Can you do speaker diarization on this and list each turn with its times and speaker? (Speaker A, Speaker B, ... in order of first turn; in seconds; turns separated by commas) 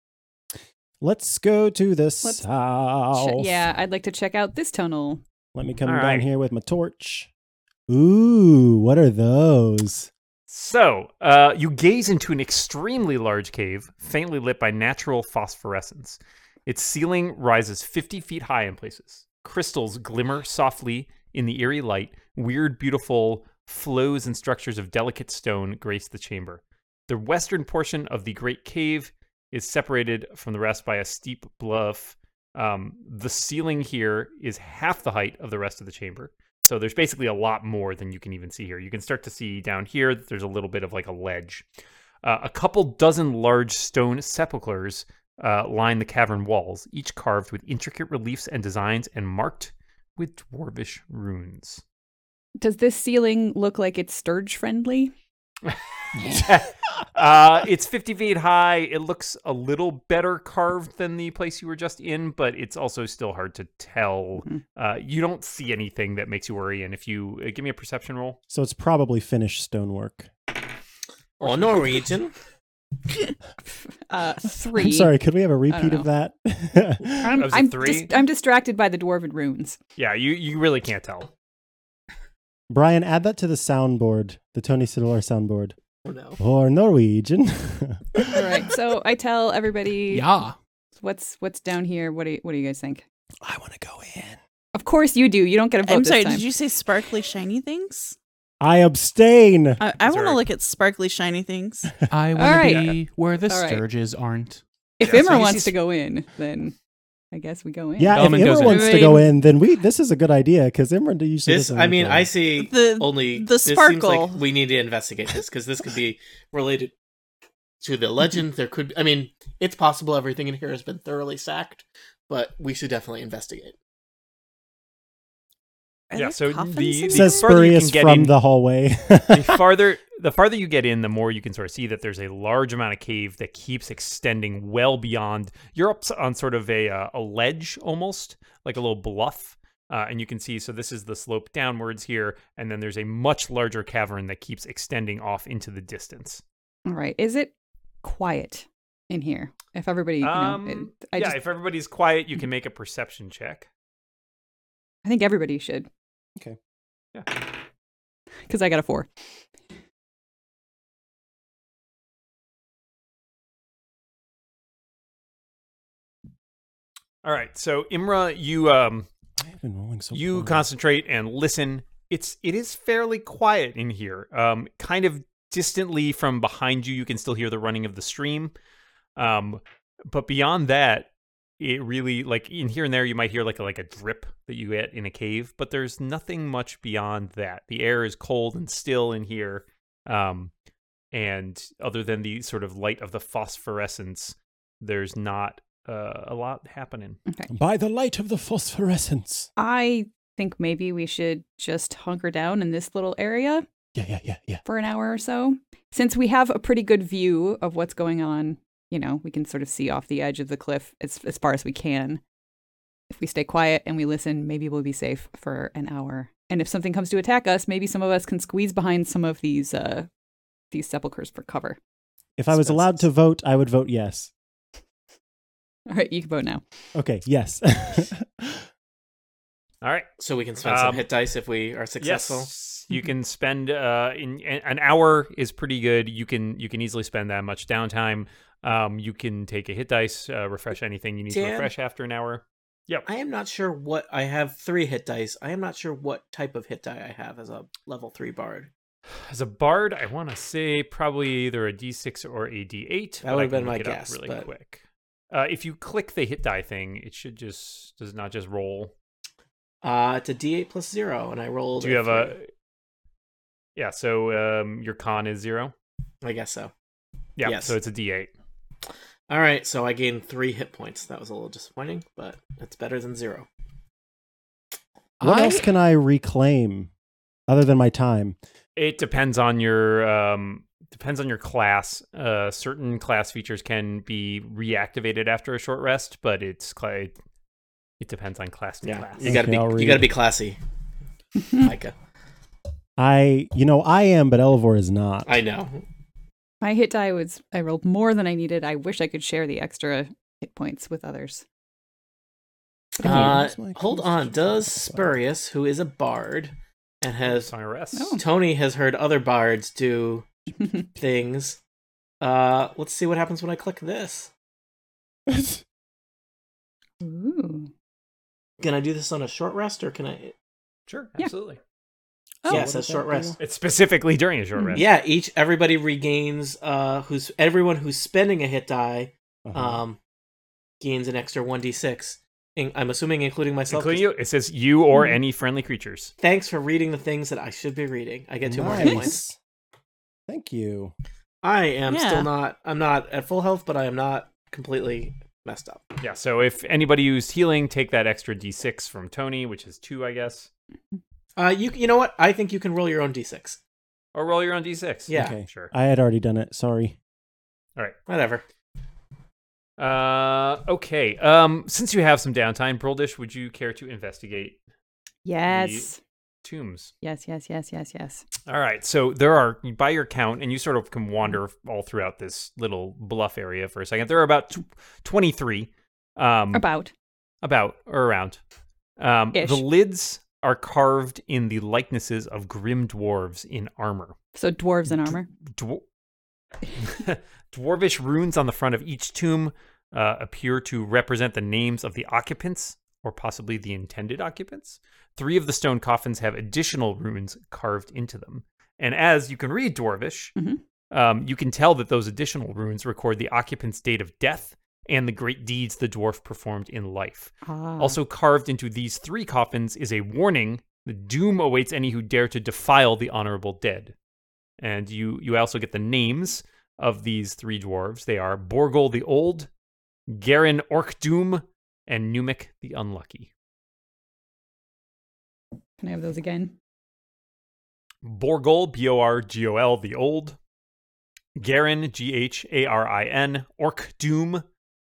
Speaker A: 1.0-3.6, Speaker B: 3.1-5.2, Speaker A: 5.5-7.3, Speaker C: 5.8-6.3, Speaker A: 7.9-10.1, Speaker C: 10.5-41.6, Speaker C: 42.2-51.8, Speaker B: 52.6-55.1, Speaker C: 55.6-68.4, Speaker A: 68.5-70.3, Speaker D: 71.4-72.3, Speaker B: 74.1-75.1, Speaker A: 74.7-77.4, Speaker B: 75.7-76.1, Speaker B: 77.2-79.8, Speaker C: 77.4-78.1, Speaker C: 80.0-81.3, Speaker A: 82.7-85.7, Speaker D: 86.0-86.4, Speaker A: 86.4-88.7, Speaker B: 88.3-90.3, Speaker E: 90.1-90.5, Speaker B: 91.0-93.0, Speaker A: 93.4-94.4, Speaker B: 94.7-96.5, Speaker F: 95.8-98.2, Speaker A: 98.6-99.8, Speaker F: 99.8-102.0, Speaker C: 100.0-100.5, Speaker E: 102.1-105.5, Speaker B: 102.3-103.8, Speaker B: 105.0-106.7, Speaker C: 105.0-105.7, Speaker B: 107.3-109.2, Speaker A: 108.0-112.3, Speaker E: 108.1-109.0, Speaker F: 108.6-109.2, Speaker D: 111.5-116.9, Speaker F: 112.5-114.5, Speaker D: 117.8-123.8, Speaker F: 126.1-127.6, Speaker C: 126.1-128.3, Speaker A: 127.1-129.6, Speaker C: 129.3-146.4, Speaker B: 146.8-151.4, Speaker C: 150.2-153.7, Speaker B: 155.0-155.9, Speaker B: 158.5-159.1, Speaker C: 167.2-169.1, Speaker A: 169.4-170.7, Speaker C: 170.1-178.5, Speaker C: 179.2-190.5, Speaker C: 191.1-197.2, Speaker A: 197.5-199.5, Speaker B: 199.6-203.7, Speaker A: 203.9-204.6, Speaker B: 204.6-212.2, Speaker B: 213.1-220.1, Speaker B: 220.7-221.8, Speaker A: 222.4-224.3, Speaker B: 225.9-226.6, Speaker A: 226.9-228.6, Speaker C: 229.8-230.1, Speaker D: 230.2-232.5, Speaker C: 230.6-231.1, Speaker C: 232.0-243.1, Speaker D: 241.3-241.7, Speaker D: 243.1-248.7, Speaker C: 249.3-258.9, Speaker D: 253.2-254.5, Speaker D: 259.8-262.3, Speaker C: 261.8-262.5, Speaker C: 263.8-265.7, Speaker D: 266.2-266.7, Speaker C: 267.4-268.3, Speaker D: 267.4-267.8, Speaker D: 269.3-273.5, Speaker E: 275.2-275.6, Speaker A: 275.2-276.9, Speaker A: 277.5-278.4, Speaker C: 278.8-287.1, Speaker C: 288.0-289.5, Speaker D: 288.8-290.6, Speaker A: 289.2-290.1, Speaker D: 291.5-291.9, Speaker A: 293.0-295.4, Speaker D: 295.2-295.8, Speaker B: 296.6-301.4, Speaker B: 303.0-303.4, Speaker D: 303.0-307.5, Speaker A: 303.0-305.2, Speaker C: 307.2-308.1, Speaker B: 307.9-308.2, Speaker D: 308.2-310.3, Speaker D: 310.9-311.6, Speaker D: 312.2-314.3, Speaker A: 315.3-315.6, Speaker B: 317.0-317.7, Speaker D: 318.6-320.3, Speaker C: 320.9-321.6, Speaker D: 322.5-323.3, Speaker A: 322.5-323.4, Speaker C: 323.4-324.9, Speaker B: 324.6-324.8, Speaker D: 324.7-330.0, Speaker A: 329.4-329.8, Speaker D: 330.8-334.0, Speaker C: 333.7-336.1, Speaker D: 336.2-339.2, Speaker A: 338.4-339.4, Speaker B: 338.8-339.1, Speaker A: 340.3-340.9, Speaker D: 341.4-345.9, Speaker F: 341.9-342.3, Speaker C: 346.0-350.5, Speaker D: 351.4-353.6, Speaker C: 354.1-355.7, Speaker D: 355.1-355.3, Speaker A: 355.1-356.9, Speaker D: 358.1-358.4, Speaker C: 359.8-364.6, Speaker B: 365.2-366.0, Speaker C: 365.5-365.9, Speaker C: 366.4-366.9, Speaker B: 367.0-368.2, Speaker C: 368.5-376.7, Speaker B: 376.5-376.9, Speaker C: 377.4-378.4, Speaker C: 379.0-384.1, Speaker B: 379.3-379.6, Speaker B: 384.3-385.3, Speaker C: 385.0-385.8, Speaker C: 386.8-400.3, Speaker B: 400.4-400.6, Speaker C: 400.9-413.9, Speaker B: 407.4-408.0, Speaker C: 414.6-419.5, Speaker C: 420.1-423.3, Speaker B: 425.8-426.5, Speaker C: 428.0-430.4, Speaker C: 431.4-434.4